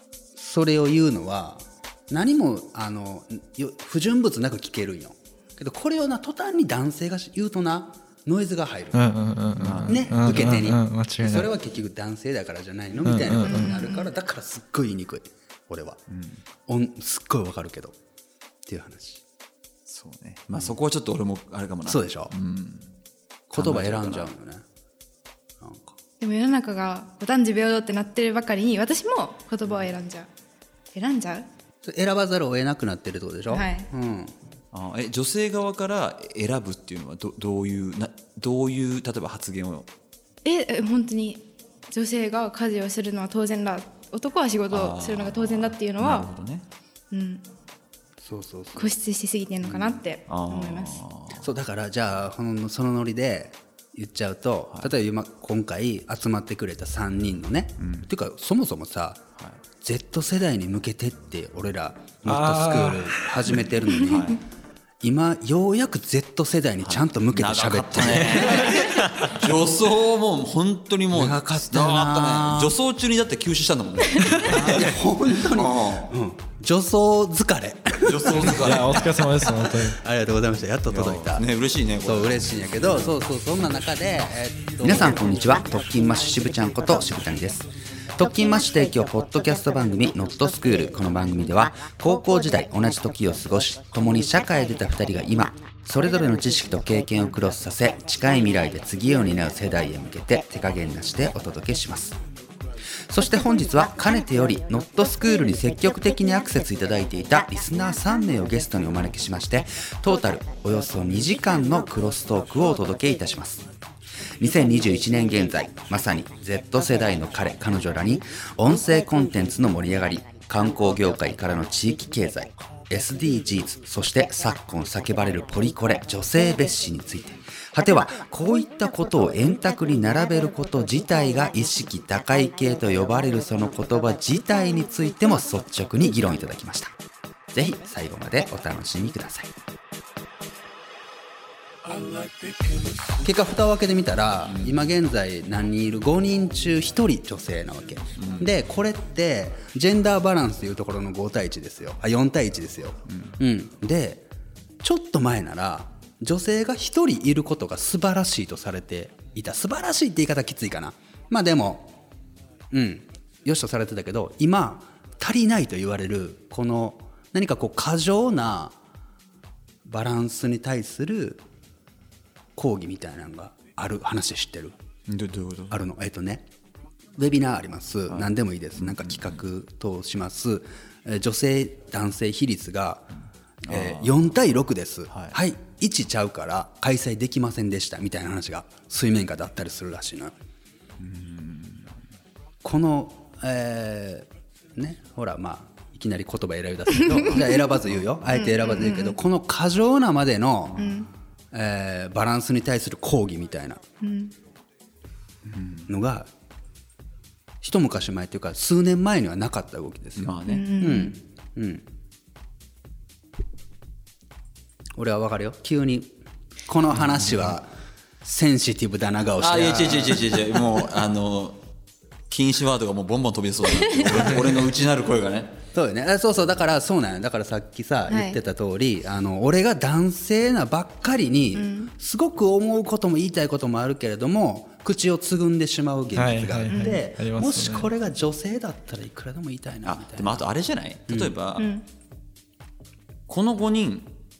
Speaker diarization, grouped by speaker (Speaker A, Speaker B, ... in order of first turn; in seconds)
Speaker A: 0.3-9.1, 9.9-16.0, 16.7-17.9, 18.7-19.2, 21.9-22.3, 23.5-24.6, 25.6-25.9, 31.8-34.4, 48.2-49.0, 51.3-59.2, 59.8-64.3, 65.0-69.0, 71.1-72.7, 74.4-78.8, 79.4-81.5, 82.0-102.2, 103.1-113.6, 114.4-136.9, 137.5-139.5, 143.2-154.2, 154.8-161.9, 162.7-168.8, 169.8-171.4, 172.6-174.7, 175.7-176.4, 177.2-183.1, 183.7-190.3, 192.6-200.9, 201.5-203.8, 205.9-206.3, 207.6-211.8, 215.0-216.1, 216.7-217.7, 218.2-220.6, 225.7-240.4
Speaker B: 8.9-11.5, 13.0-13.7, 62.2-63.5, 78.5-80.0, 236.1-237.9
Speaker C: 9.6-10.5, 16.1-16.4, 19.9-22.9, 23.5-24.3, 34.7-39.9, 44.7-46.6, 49.6-51.4, 57.8-58.1, 64.0-64.4, 66.8-76.1, 78.0-79.2, 80.9-82.9, 148.2-148.5, 153.1-153.3, 175.1-175.8, 178.8-179.4, 183.7-184.1, 191.0-191.8, 205.5-205.9, 210.2-210.7, 216.9-217.5, 219.4-221.6, 222.3-225.6, 239.8-241.7, 243.3-244.1
Speaker D: 13.4-14.1, 26.2-30.3, 30.9-31.5, 33.5-33.9, 40.4-46.3, 47.1-47.4, 48.8-51.0, 198.4-199.2, 200.8-201.1, 204.0-204.3, 210.4-211.2, 223.8-224.1, 228.1-228.4, 231.6-231.9, 236.7-237.0, 241.6-241.8